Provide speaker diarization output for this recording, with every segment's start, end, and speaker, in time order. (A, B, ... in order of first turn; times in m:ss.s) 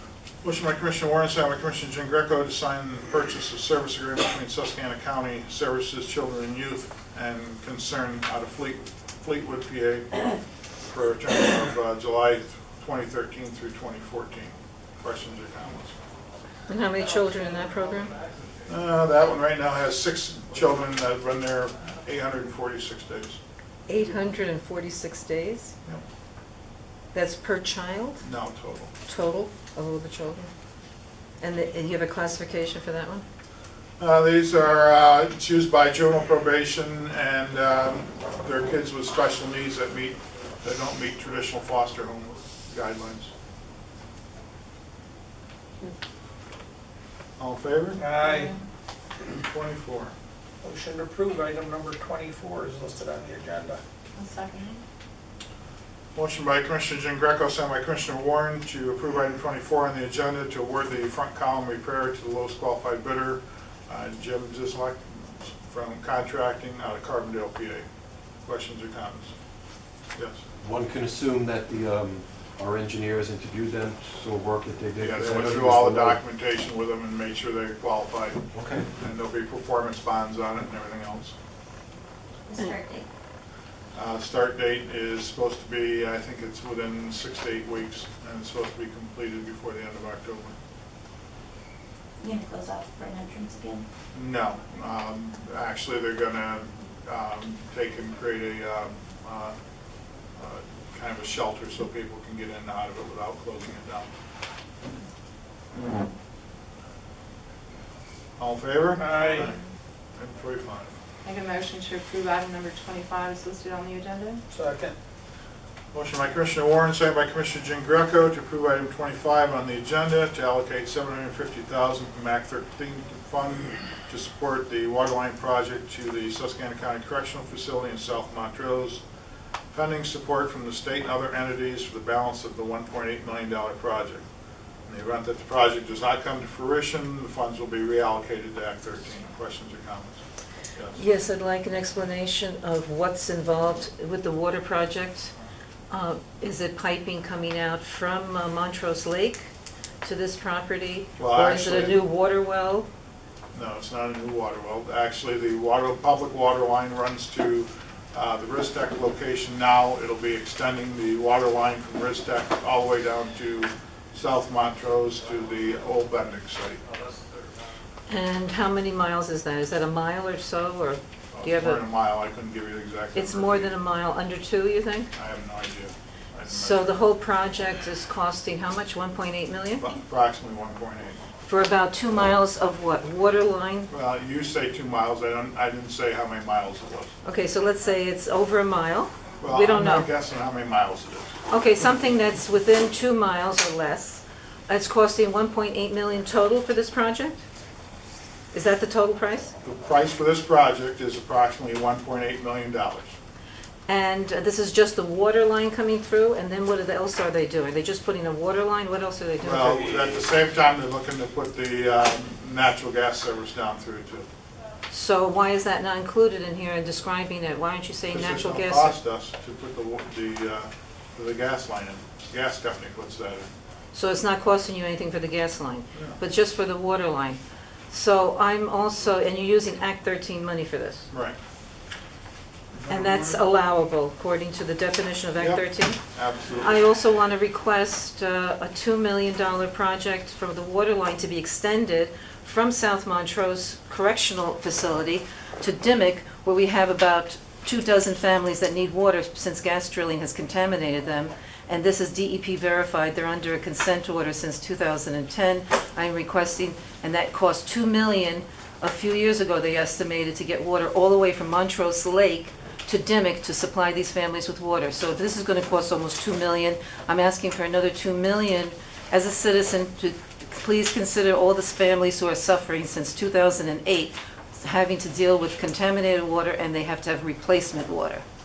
0:00.4-0:10.3 A
0:10.9-0:16.0 A
0:16.7-0:18.2 B
0:18.7-0:23.4 A
0:23.9-0:25.7 B
0:27.1-0:28.2 B
0:28.2-0:28.9 A
0:29.1-0:30.5 B
0:31.4-0:33.2 B
0:34.0-0:43.3 A
0:47.4-0:48.1 A
0:48.0-0:48.5 C
0:48.2-0:48.6 D
0:49.3-0:50.2 A
0:50.6-0:53.8 C
0:54.2-0:54.8 D
0:56.2-1:07.8 A
1:08.5-1:09.3 A
1:10.2-1:10.4 A
1:10.6-1:16.2 E
1:15.0-1:21.4 A
1:18.5-1:18.9 E
1:22.5-1:23.1 F
1:23.9-1:30.6 A
1:32.2-1:33.8 F
1:34.1-1:39.6 A
1:40.4-1:44.1 A
1:48.4-1:49.6 A
1:49.0-1:49.5 C
1:50.2-1:50.9 A
1:51.2-1:54.4 D
1:54.5-1:55.0 C
1:55.9-2:09.0 A
2:09.7-2:14.3 A
2:14.9-2:20.2 A
2:20.8-2:21.0 A
2:21.0-2:25.3 B
2:25.9-2:29.5 B
2:30.0-2:32.9 B
2:31.2-2:32.0 A
2:33.5-2:46.8 A
2:48.1-2:51.9 B
2:51.3-2:53.8 A
2:53.2-2:55.1 B
2:55.1-2:57.0 A
2:56.5-2:59.9 B
2:59.8-3:01.2 A
3:01.5-3:03.9 B
3:03.9-3:07.1 A
3:07.2-3:10.1 B
3:09.4-3:11.3 A
3:11.5-3:17.4 B
3:18.5-3:19.6 B
3:19.6-3:23.2 A
3:23.9-3:30.1 B
3:29.4-3:34.3 A
3:34.9-3:39.0 B
3:38.1-3:43.5 A
3:43.9-3:47.4 B
3:47.9-3:51.1 B
3:51.1-3:51.4 A
3:52.7-3:53.4 A
3:52.9-3:56.0 B
3:55.4-3:56.8 A
3:56.6-4:38.2 B